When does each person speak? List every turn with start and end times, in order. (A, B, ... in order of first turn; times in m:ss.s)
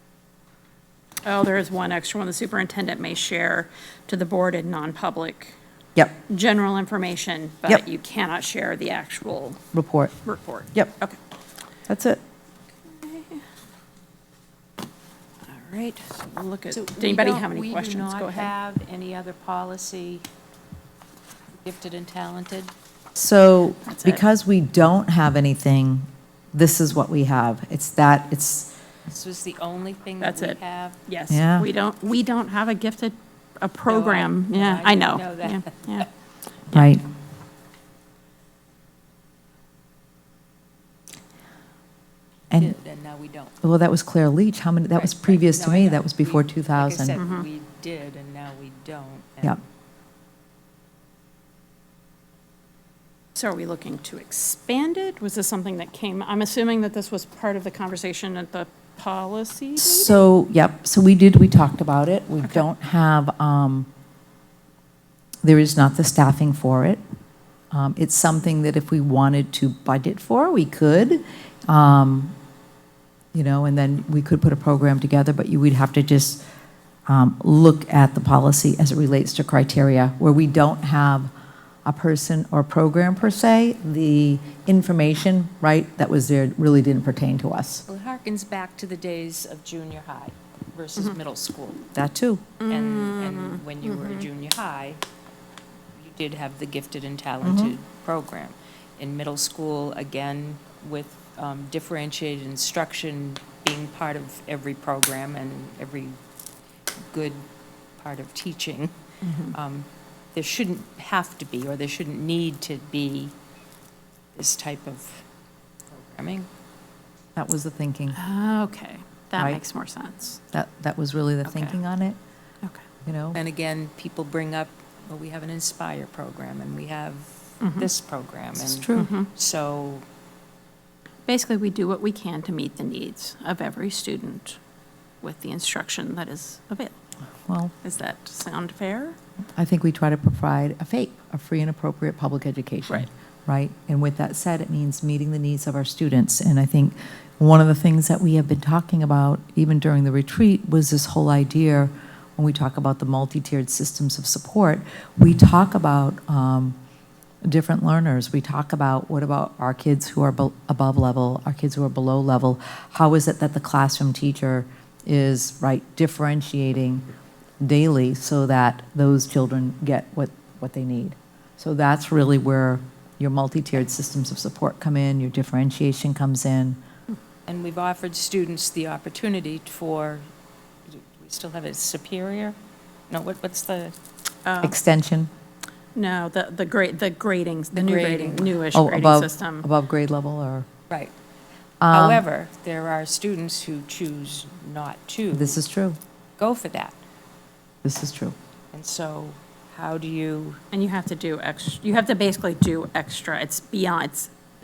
0:01.2-0:05.6 A
0:06.3-0:09.6 A
0:09.7-0:10.1 B
0:10.2-0:11.2 A
0:11.9-0:12.2 B
0:12.9-0:13.4 A
0:15.5-0:18.5 A
0:16.7-0:20.2 C
0:21.6-0:22.7 C
0:23.1-0:28.7 B
0:23.8-0:24.2 A
0:29.1-0:31.0 C
0:30.2-0:36.1 A
0:31.3-0:31.7 B
0:33.8-0:36.1 C
0:36.7-0:37.0 B
0:42.5-0:43.5 C
0:43.6-0:47.2 B
0:44.9-0:49.6 C
0:47.2-0:47.4 A
0:53.4-1:00.2 A
0:59.8-1:03.9 B
1:05.4-1:07.0 B
1:07.7-1:12.3 B
1:13.3-1:16.4 B
1:17.1-1:21.3 B
1:21.8-1:27.8 B
1:27.9-1:31.8 C
1:31.9-1:32.5 B
1:32.6-1:34.2 A
1:32.7-1:35.0 C
1:35.9-1:46.2 C
1:37.4-1:37.7 B
1:47.1-1:47.4 C
1:48.0-1:48.9 C
1:49.5-1:53.3 C
1:54.3-1:55.2 C
1:55.9-1:56.5 C
1:57.4-1:58.2 B
1:58.1-2:00.4 A
2:00.5-2:02.2 B
2:03.0-2:03.4 B
2:03.3-2:10.0 C
2:07.6-2:07.9 A
2:08.6-2:09.1 B
2:08.9-2:09.3 A
2:11.3-2:14.6 A
2:15.2-2:16.9 A
2:17.5-2:17.7 B
2:17.8-2:19.2 A
2:19.6-2:36.8 B
2:37.4-2:47.0 B
2:47.6-2:56.8 B
2:57.4-3:00.3 C
3:00.9-3:02.6 C
3:03.1-3:03.9 C
3:04.4-3:04.8 A
3:04.6-3:05.3 B
3:05.9-3:09.6 A
3:07.7-3:08.6 C
3:08.7-3:10.7 B
3:11.8-3:12.2 B
3:11.9-3:15.6 C
3:15.3-3:16.0 B
3:16.4-3:17.0 C
3:17.8-3:18.4 B
3:18.7-3:20.6 C
3:20.7-3:24.3 A